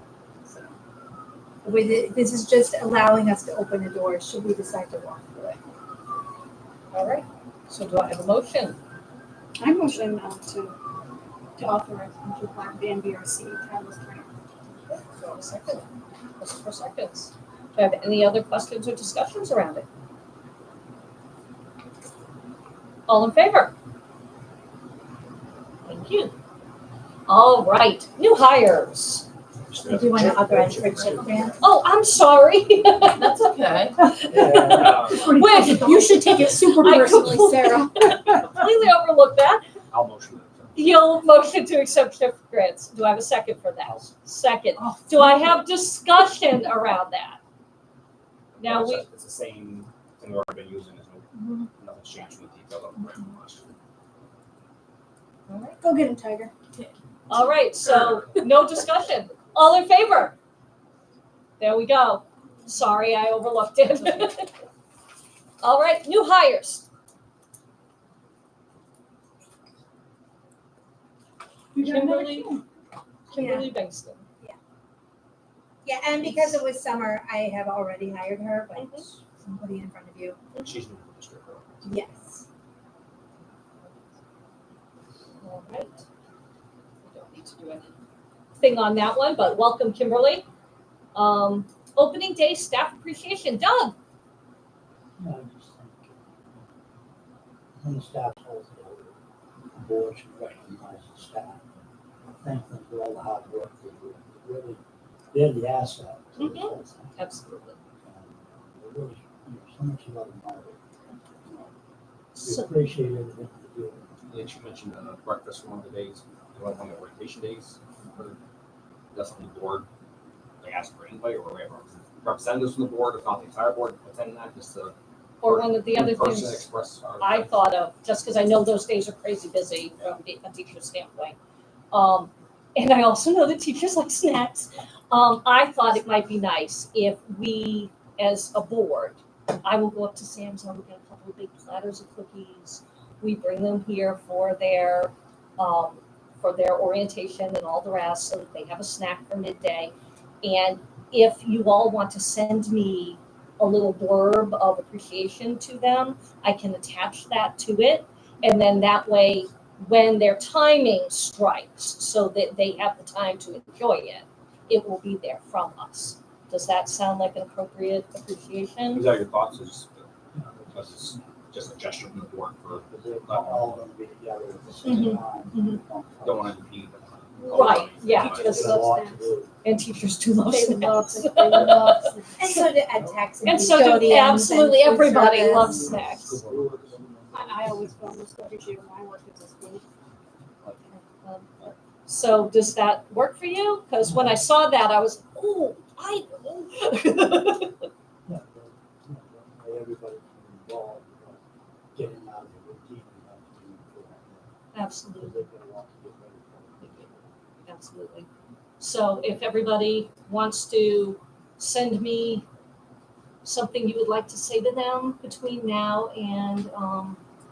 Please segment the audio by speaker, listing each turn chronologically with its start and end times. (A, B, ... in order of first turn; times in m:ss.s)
0:01.6-0:05.6 A
0:06.9-0:08.8 B
0:09.6-0:10.8 C
0:11.6-0:14.3 C
0:14.9-0:15.8 B
0:16.4-0:19.8 B
0:23.1-0:23.7 B
0:25.8-0:26.3 B
0:27.3-0:29.3 B
0:29.7-0:31.4 D
0:29.8-0:31.6 A
0:31.6-0:39.6 B
0:34.3-0:35.1 E
0:34.7-0:35.3 D
0:35.2-0:38.1 C
0:39.9-0:40.8 D
0:40.8-0:47.4 B
0:43.8-0:44.1 E
0:48.5-0:53.7 D
0:48.6-0:49.0 B
0:55.5-0:55.8 B
0:55.8-0:56.5 C
0:57.3-1:00.4 B
1:01.6-1:04.5 B
1:05.6-1:06.8 B
1:11.7-1:12.5 C
1:11.8-1:12.6 B
1:13.3-1:14.2 B
1:13.3-1:13.7 A
1:15.8-1:20.4 A
1:16.2-1:16.6 B
1:18.7-1:19.0 B
1:20.6-1:21.8 D
1:21.8-1:22.4 A
1:25.4-1:26.0 B
1:27.0-1:27.9 B
1:28.6-1:30.4 B
1:31.1-1:33.9 B
1:35.2-1:36.7 E
1:37.8-1:39.2 E
1:39.7-1:41.6 E
1:42.4-1:44.8 E
1:45.3-1:47.2 E
1:46.4-1:47.8 B
1:48.0-1:50.8 E
1:51.4-1:51.7 E
1:52.3-1:52.7 B
1:52.4-1:54.1 E
1:54.3-1:58.4 D
1:59.1-1:59.8 D
2:00.6-2:07.6 D
2:05.4-2:06.7 B
2:07.2-2:11.4 B
2:11.9-2:49.1 B
2:48.9-2:50.0 D
2:50.3-2:51.4 E
2:50.7-2:53.8 D
2:52.7-2:56.6 E
2:54.8-2:55.8 B
2:56.2-2:58.7 D
2:57.5-2:58.9 B
2:58.2-2:59.5 E
2:58.2-2:58.7 A
2:58.8-2:59.2 C
2:59.6-3:02.6 B
3:00.4-3:02.4 C
3:02.4-3:05.9 A
3:03.4-3:06.3 B
3:05.6-3:07.0 D
3:06.1-3:07.9 E
3:07.3-3:09.8 C
3:10.9-3:17.9 B
3:14.0-3:14.4 E
3:18.2-3:21.4 E
3:21.9-3:24.5 E
3:24.7-3:25.4 B
3:25.1-3:27.3 E
3:26.8-3:27.1 B
3:27.6-3:28.3 B
3:28.8-3:32.4 B
3:33.4-3:37.2 B